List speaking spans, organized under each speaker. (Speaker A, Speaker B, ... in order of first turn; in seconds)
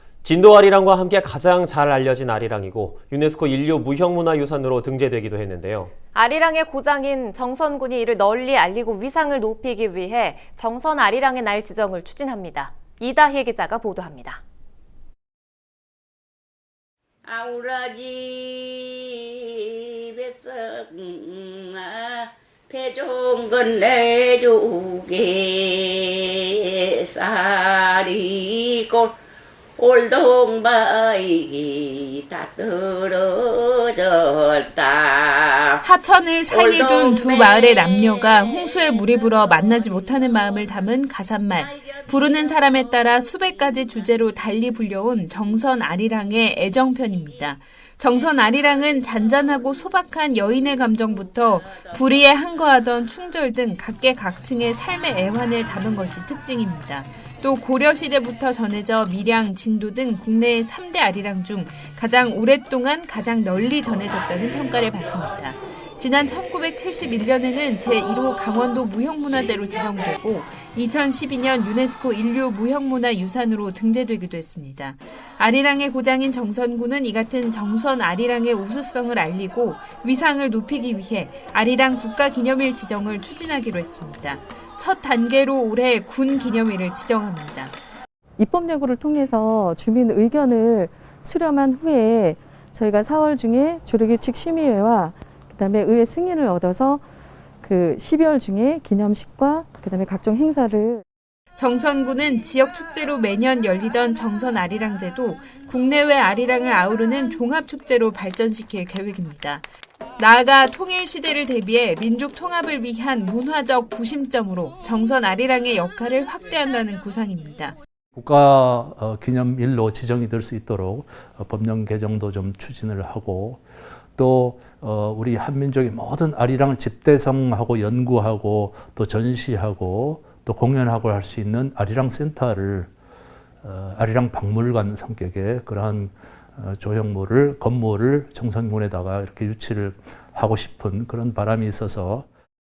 Speaker A: 0.2-6.0
Speaker B: 6.1-14.4
Speaker C: 17.2-29.1, 29.8-35.8, 36.5-41.0, 41.6-44.1, 50.9-52.1
Speaker D: 35.8-87.7, 101.5-109.6, 110.2-117.8
Speaker E: 88.4-97.0, 97.6-101.0
Speaker F: 118.2-123.6, 124.2-132.9, 133.6-142.3